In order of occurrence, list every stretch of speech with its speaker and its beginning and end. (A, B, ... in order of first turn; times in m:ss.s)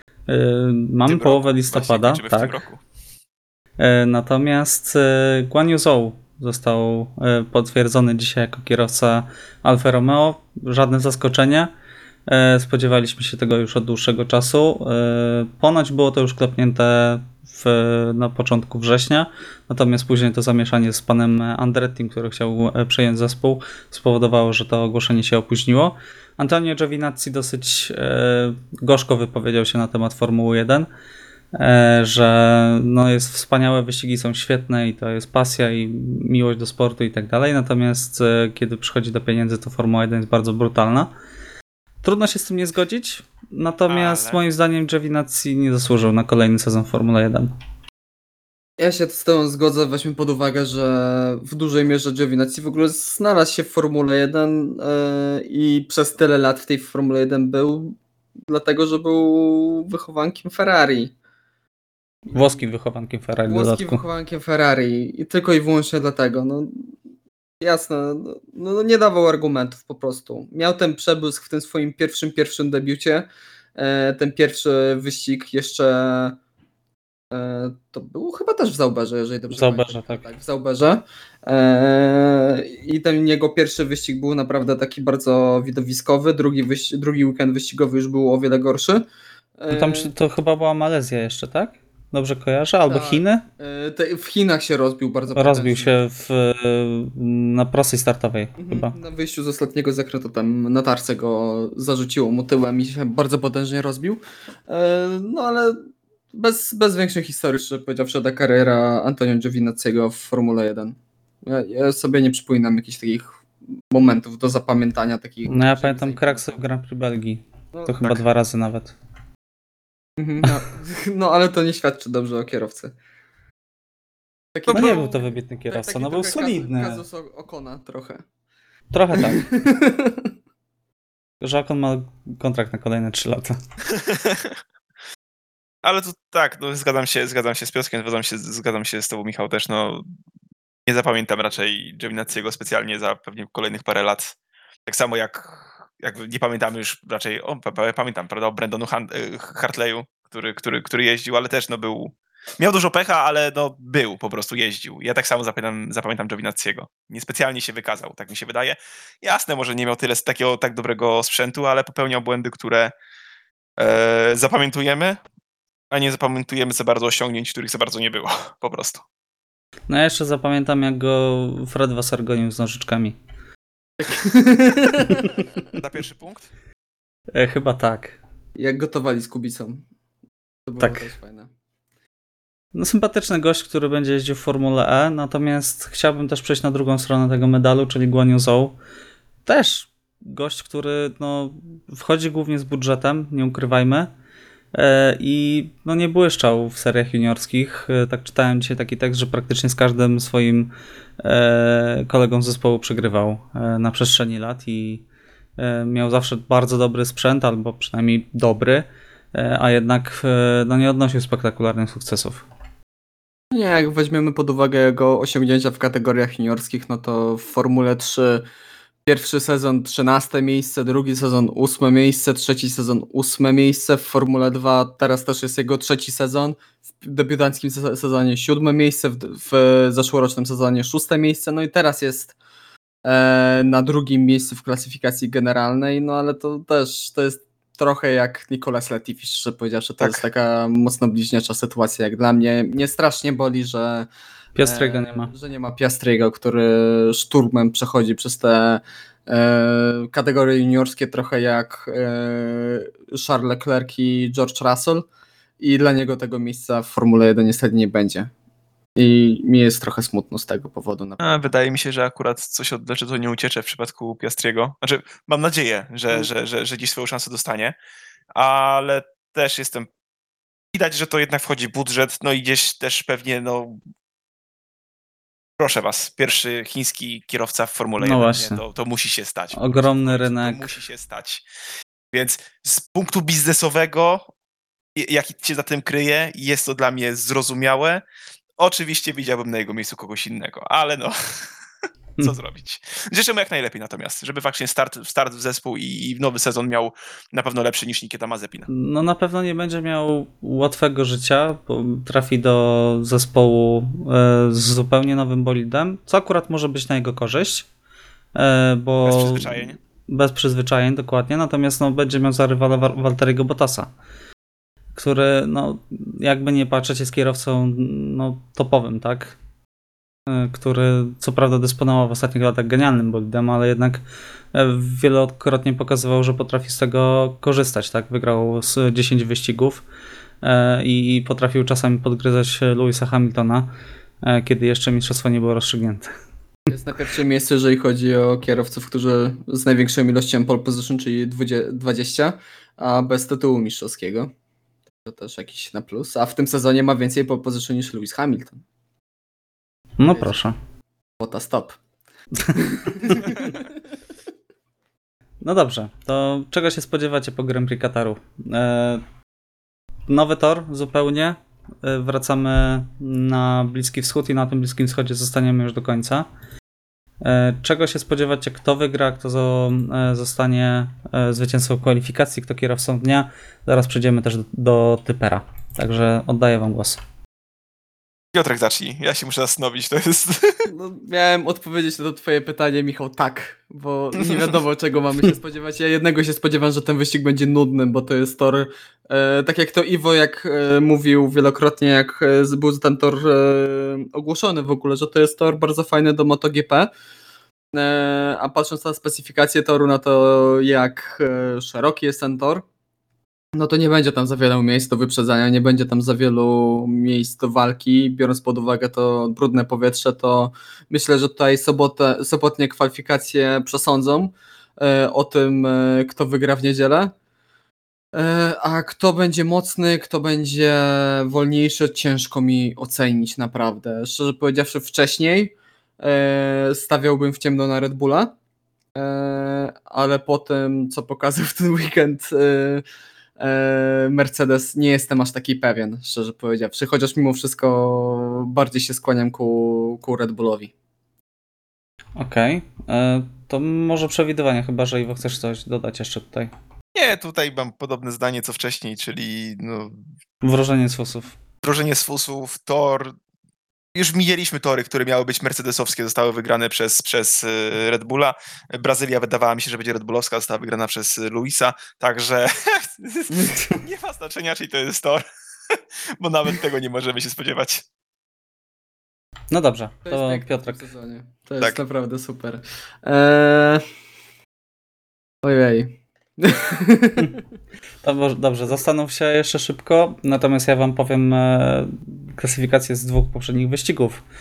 0:00.3-0:02.6 A
0:01.1-0:02.8 B
0:03.8-0:11.7 A
0:12.3-0:30.9 A
0:31.5-0:41.1 A
0:42.0-0:47.5 A
0:43.9-0:44.4 B
0:48.8-0:58.0 C
0:58.5-1:01.1 C
1:02.3-1:02.7 C
1:02.3-1:04.0 A
1:03.5-1:06.9 C
1:07.6-1:16.4 C
1:17.3-1:29.1 C
1:19.5-1:20.2 A
1:29.6-1:30.1 C
1:29.7-1:33.4 A
1:32.9-1:36.0 C
1:35.4-1:38.9 A
1:38.6-1:56.5 C
1:55.5-1:59.0 A
1:57.7-1:58.2 C
2:00.2-2:02.9 C
2:04.6-2:08.2 C
2:04.7-2:05.0 B
2:04.7-2:07.0 A
2:08.9-2:09.4 A
2:09.1-2:10.3 C
2:11.4-2:13.6 A
2:13.9-2:14.6 B
2:15.8-2:20.0 B
2:20.9-2:24.4 B
2:24.9-2:42.9 B
2:43.8-2:45.2 B
2:45.9-2:49.0 B
2:49.9-2:53.2 A
2:54.0-2:55.4 C
2:55.1-2:55.4 A
2:55.8-2:56.5 B
2:57.3-2:58.2 A
2:58.6-2:59.8 C
3:00.7-3:01.5 C
3:00.8-3:01.1 A
3:02.7-3:08.8 A
3:09.4-3:14.1 A
3:14.7-3:25.0 A
3:25.6-3:32.4 A
3:33.5-3:38.5 C
3:39.1-3:52.4 C
3:53.0-4:04.1 C
4:00.0-4:00.2 B
4:04.6-4:05.3 A
4:04.6-4:15.1 C
4:15.6-4:18.3 C
4:19.0-4:21.5 C
4:21.2-4:27.8 B
4:28.3-4:29.9 B
4:30.7-4:33.8 B
4:35.6-4:41.4 B
4:38.0-4:38.6 A
4:39.5-4:40.7 A
4:42.1-4:44.3 B
4:45.0-4:48.0 B
4:48.6-4:51.5 B
4:52.2-4:58.7 B
4:58.7-5:07.7 A
5:08.4-5:13.9 A
5:09.0-5:09.8 B
5:15.0-5:19.4 A
5:20.3-5:29.8 A
5:30.4-5:33.7 A
5:34.2-5:36.1 A
5:36.7-5:44.3 C
5:45.0-5:48.6 C
5:50.0-5:50.6 A
5:51.2-5:51.8 C
5:52.4-5:53.3 A
5:52.6-5:53.7 C
5:55.4-5:59.0 A
6:00.1-6:06.3 A
6:07.2-6:17.0 A
6:18.3-6:20.7 B
6:20.7-6:36.9 C
6:24.2-6:24.6 B
6:37.7-6:42.6 C
6:43.5-6:57.1 C
6:58.1-7:08.3 C
7:09.0-7:12.8 C
7:13.4-7:20.7 C
7:22.2-7:26.5 A
7:27.0-7:30.0 B
7:30.4-7:31.4 A
7:31.6-7:33.2 B
7:34.0-7:47.8 B
7:43.3-7:43.8 C
7:49.5-7:50.8 A
7:50.1-7:53.8 C
7:55.4-7:57.4 C
7:58.0-8:04.2 A